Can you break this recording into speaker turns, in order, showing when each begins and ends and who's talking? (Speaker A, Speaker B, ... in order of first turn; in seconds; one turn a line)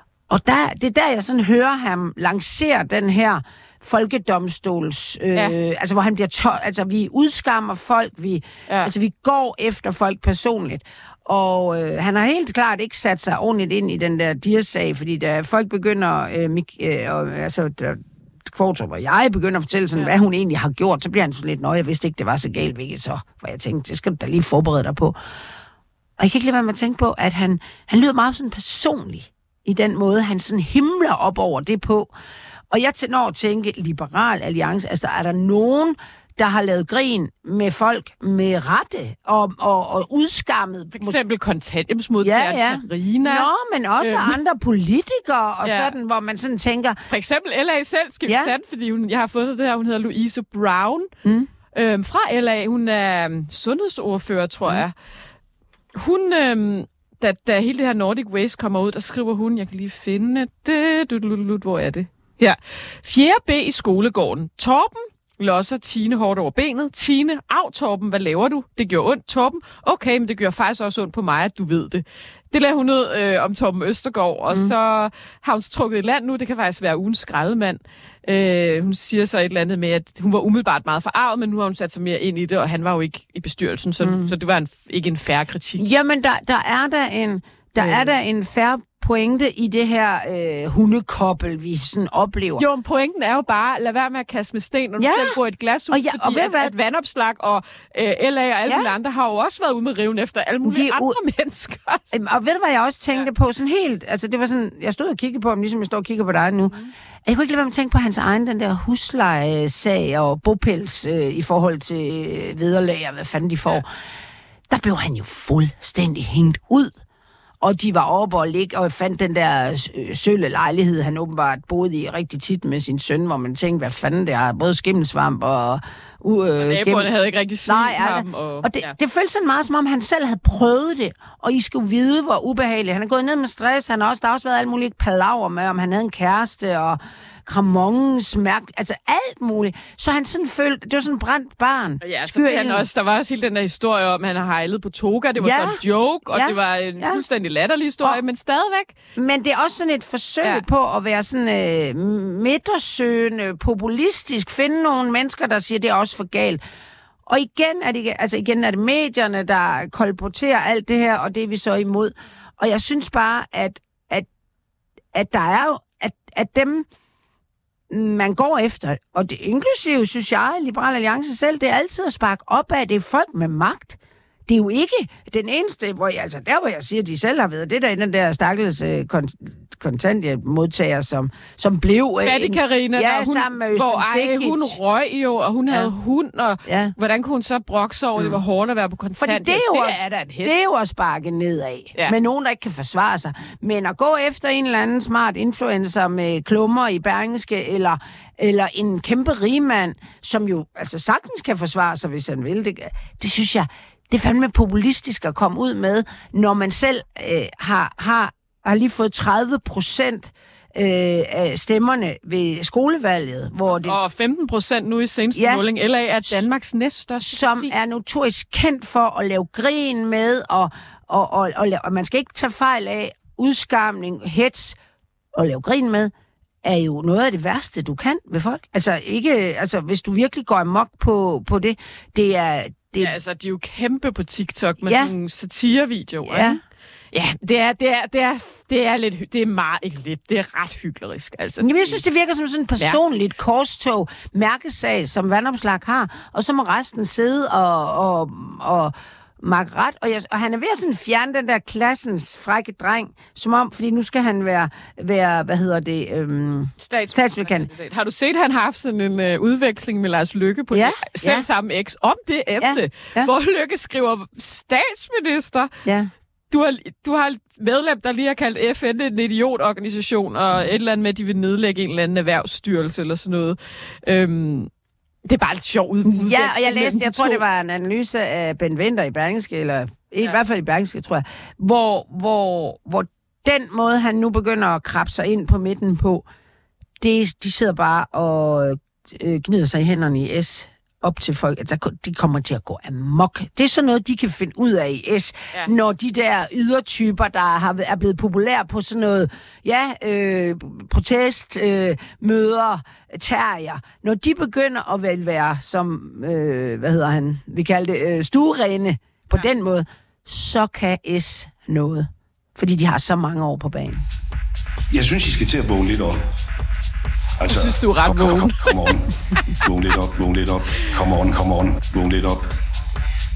Speaker A: 0.3-25.2
Speaker A: 26.2-32.1
Speaker A: 32.7-41.2
Speaker B: 40.9-43.5
Speaker A: 42.2-47.0
Speaker B: 44.0-44.4
Speaker B: 45.6-45.9
Speaker B: 47.1-51.1
Speaker A: 48.2-48.5
Speaker A: 51.2-51.5
Speaker B: 51.7-54.9
Speaker B: 55.9-85.8
Speaker A: 84.0-84.3
Speaker A: 85.8-92.6
Speaker B: 87.8-88.1
Speaker B: 92.6-102.2
Speaker A: 95.0-95.4
Speaker A: 95.9-96.7
Speaker A: 98.7-98.9
Speaker A: 100.6-101.2
Speaker A: 102.1-106.7
Speaker A: 107.2-113.9
Speaker A: 114.7-116.9
Speaker A: 117.6-127.1
Speaker B: 126.6-128.9
Speaker A: 127.7-142.9
Speaker B: 142.0-148.9
Speaker A: 145.4-147.2
Speaker A: 149.2-156.6
Speaker A: 157.2-164.3
Speaker A: 165.1-166.8
Speaker A: 167.9-184.8
Speaker B: 182.2-190.7
Speaker A: 186.6-186.9
Speaker A: 189.2-214.0
Speaker B: 213.7-217.7
Speaker A: 215.3-215.6
Speaker A: 217.2-224.8
Speaker A: 225.3-226.1
Speaker A: 226.6-233.1
Speaker B: 233.0-236.6
Speaker A: 234.8-235.1
Speaker A: 236.2-236.6
Speaker B: 237.1-242.0
Speaker A: 241.6-257.7
Speaker B: 256.8-265.7
Speaker A: 260.7-261.5
Speaker A: 262.6-263.3
Speaker A: 265.8-266.1
Speaker B: 266.5-274.7
Speaker B: 275.2-277.4
Speaker A: 276.0-286.2
Speaker A: 287.0-314.0
Speaker C: 314.9-316.2
Speaker C: 317.4-319.1
Speaker B: 317.5-318.6
Speaker C: 319.6-322.4